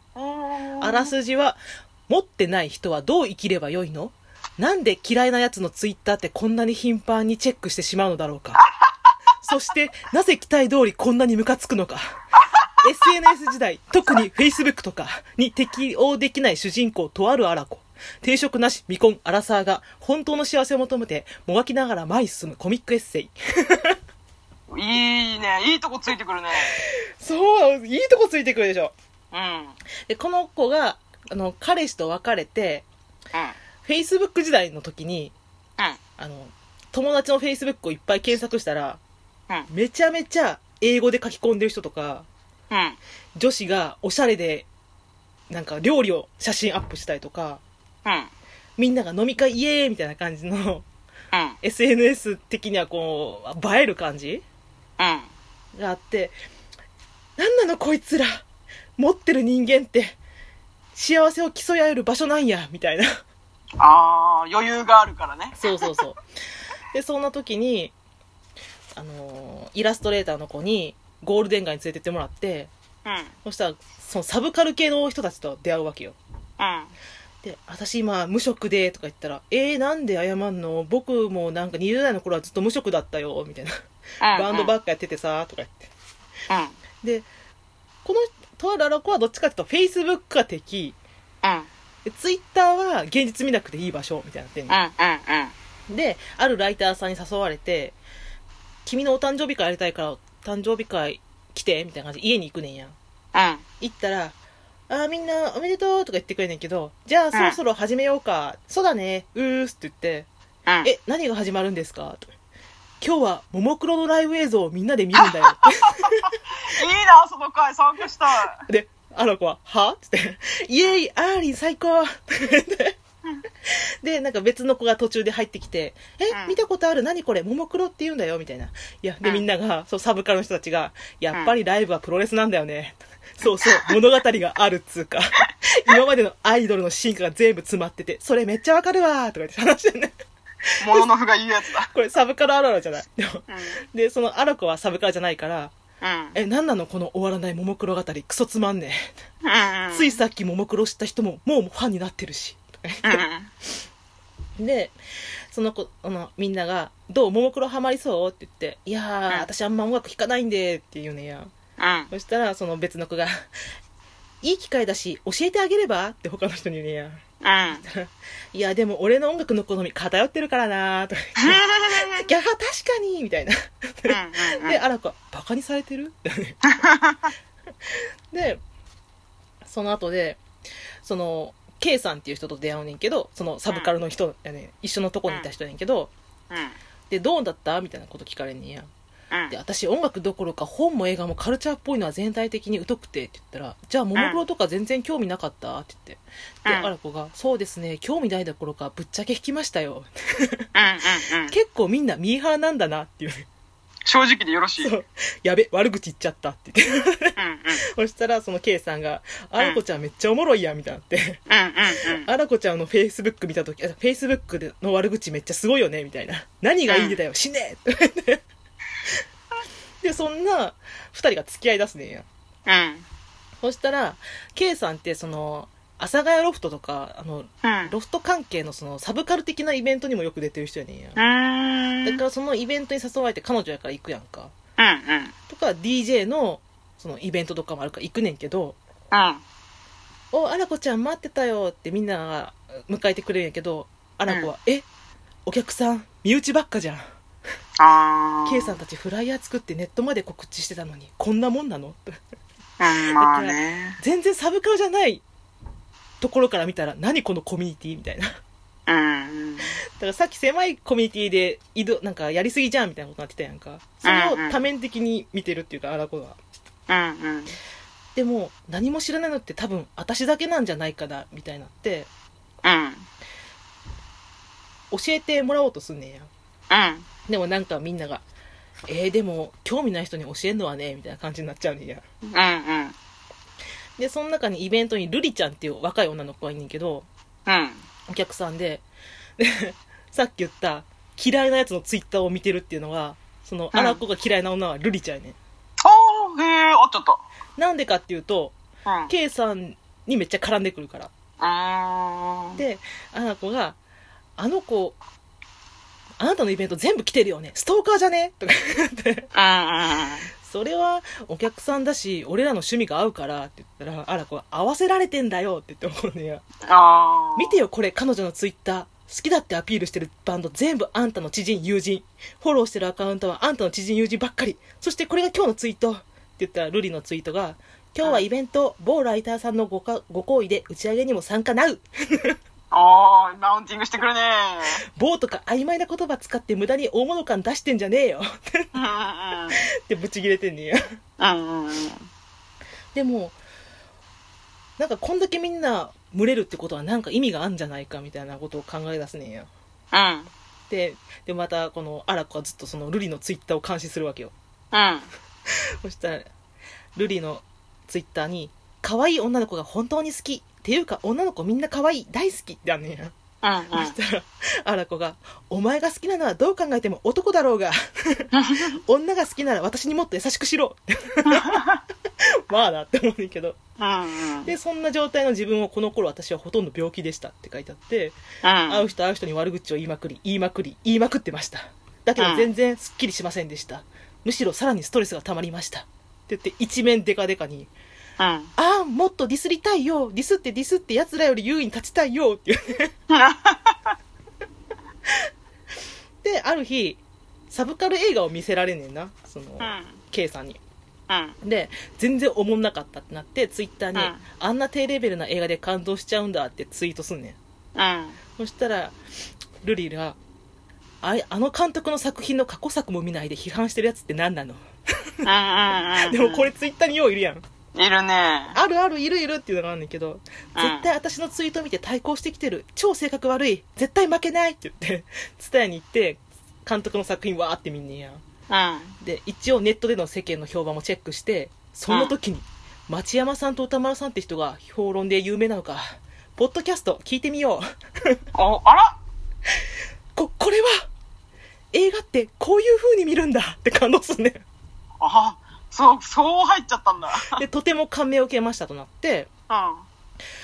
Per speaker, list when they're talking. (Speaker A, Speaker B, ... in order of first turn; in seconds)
Speaker A: 0.2-1.1, 24.7-26.7, 29.3-29.8, 42.7-43.0, 48.0-48.3, 55.0-55.3, 63.8-65.9, 73.0-73.3, 76.6-76.9, 84.2-84.7, 86.5-86.8, 91.4-91.7, 94.7-95.5, 103.3-103.6, 115.2-116.1, 116.6-118.6, 126.3-126.6, 140.8-141.9, 143.5-143.8, 146.0-146.4, 149.4-150.2, 153.0-153.5, 161.8-162.1, 167.4-167.8, 171.4-172.2, 174.1-174.8, 176.8-177.3, 186.5-186.8, 196.7-196.9, 200.8-201.5, 204.1-204.9, 207.4-207.8, 211.5-212.3, 216.9-217.2, 222.7-223.1, 227.6-227.9, 231.2-232.2, 234.8-235.3, 239.1-239.4, 247.8-248.8, 252.8-254.0, 258.9-259.8, 264.0-264.6, 266.9-267.5, 272.6-273.1, 276.7-277.1, 282.3-283.0, 287.5-287.8, 293.7-294.0, 295.8-297.2, 298.9-299.1, 301.4-302.6, 309.3-310.3, 316.7-317.6, 332.7-334.8, 338.7-339.6, 341.2-342.1, 349.9-350.3, 354.7-355.1, 363.4-363.9, 368.3-368.7, 373.8-374.5, 378.4-378.9, 382.2-382.5, 388.2-388.5, 393.1-393.9, 399.6-400.0, 401.1-401.4, 403.9-404.2, 407.8-408.2, 415.2-416.5, 417.8-418.6, 420.6-420.8, 428.5-428.9, 431.9-432.1, 438.4-439.0, 445.0-447.4, 449.5-449.9
Speaker B: 0.8-8.7, 9.4-12.2, 12.8-24.0, 26.8-28.9, 30.1-32.9, 33.8-35.4, 36.2-39.0, 39.7-42.3, 43.4-44.7, 45.5-47.6, 48.8-50.9, 51.6-54.4, 55.8-56.4, 57.4-58.4, 59.0-60.2, 60.9-63.1, 65.6-66.2, 66.9-67.9, 69.0-72.7, 73.5-76.2, 77.4-83.7, 84.3-85.9, 87.0-87.3, 88.0-91.0, 92.1-94.8, 95.9-98.0, 98.8-103.0, 103.8-104.4, 104.9-110.3, 110.8-112.3, 113.0-116.3, 118.6-123.0, 123.7-140.1, 141.9-145.7, 146.3-149.1, 149.9-153.2, 154.6-154.9, 155.5-161.5, 162.1-163.4, 164.4-167.2, 167.8-176.7, 178.3-178.6, 179.6-180.4, 181.0-186.1, 187.1-188.9, 189.5-200.7, 201.5-203.5, 204.8-207.3, 207.9-211.4, 212.2-218.4, 220.0-222.3, 223.6-231.2, 232.0-234.5, 235.5-238.8, 240.3-244.9, 245.5-247.0, 248.5-252.0, 253.2-255.2, 256.2-258.3, 260.0-266.4, 268.1-272.1, 274.9-276.3, 277.3-278.2, 278.9-282.0, 284.0-287.1, 288.1-288.8, 289.4-295.4, 297.6-298.6, 299.1-301.1, 302.6-303.8, 304.4-305.0, 306.2-309.3, 310.4-316.4, 317.4-332.4, 335.0-338.7, 339.9-340.8, 342.9-343.4, 344.8-349.5, 350.7-354.3, 355.8-356.3, 357.0-363.1, 363.7-371.7, 372.5-373.6, 374.4-378.2, 378.7-387.7, 388.6-392.9, 396.2-400.6, 401.4-407.4, 408.4-408.9, 409.6-410.2, 411.0-414.6, 416.1-417.4, 418.5-428.2, 429.0-438.2, 440.1-440.9, 441.7-444.4, 447.2-449.3